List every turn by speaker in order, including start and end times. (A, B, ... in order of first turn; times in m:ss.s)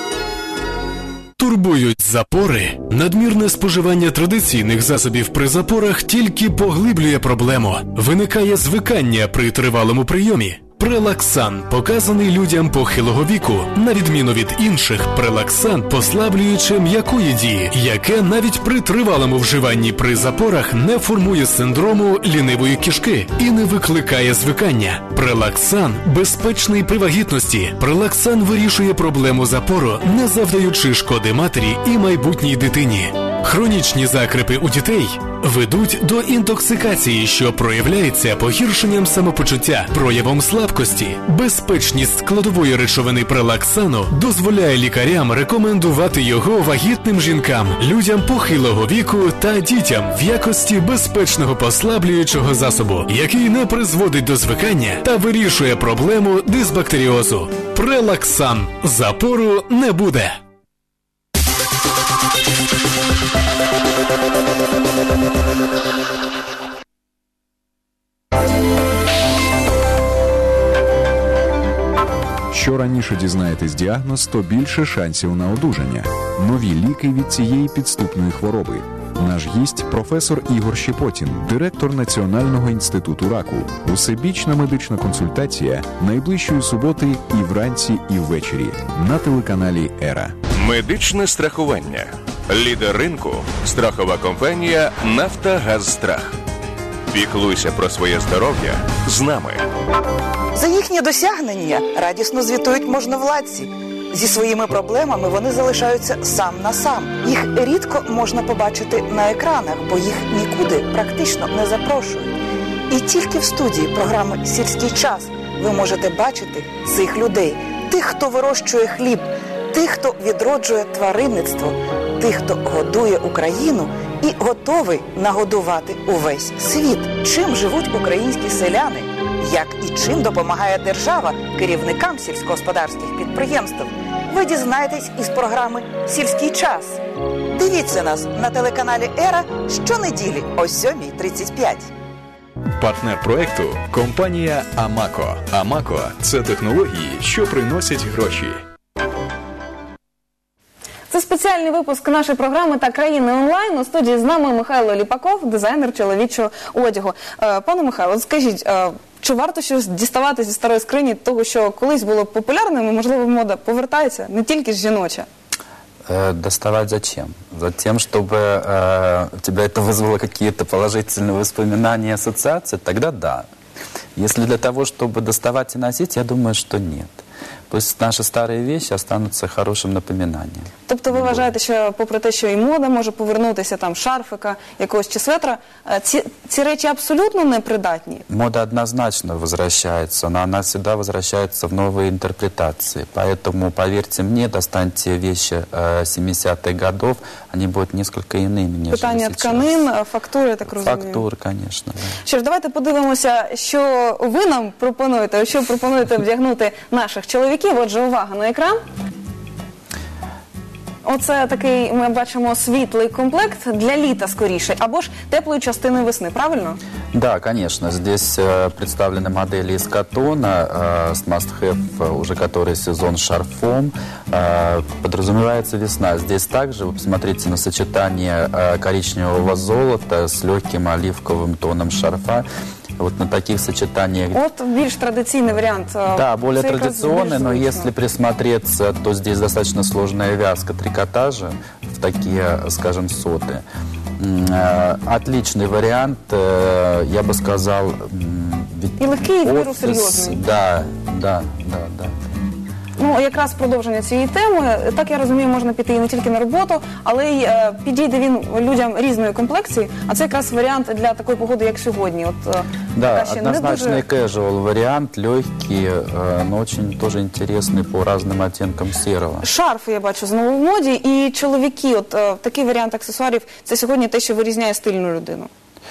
0:01.4-1:00.4 A
1:12.5-1:30.4 B
1:30.5-1:36.3 C
1:37.1-1:39.6 C
1:40.5-1:52.4 D
1:52.9-2:17.0 D
2:17.5-2:21.9 D
2:22.8-2:28.6 B
2:31.1-2:45.3 E
2:46.1-2:53.5 F
2:54.2-3:01.5 F
3:00.9-3:08.2 E
3:08.3-3:19.8 F
3:18.9-3:21.2 E
3:20.7-3:22.2 F
3:22.2-3:28.8 E
3:31.0-3:36.8 E
3:37.1-3:52.5 F
3:53.0-3:54.4 F
3:54.3-3:57.9 E
3:56.1-4:03.6 F
4:04.2-4:12.4 F
4:09.0-4:10.4 E
4:13.0-4:24.0 E
4:23.0-4:29.5 F
4:29.4-4:35.5 E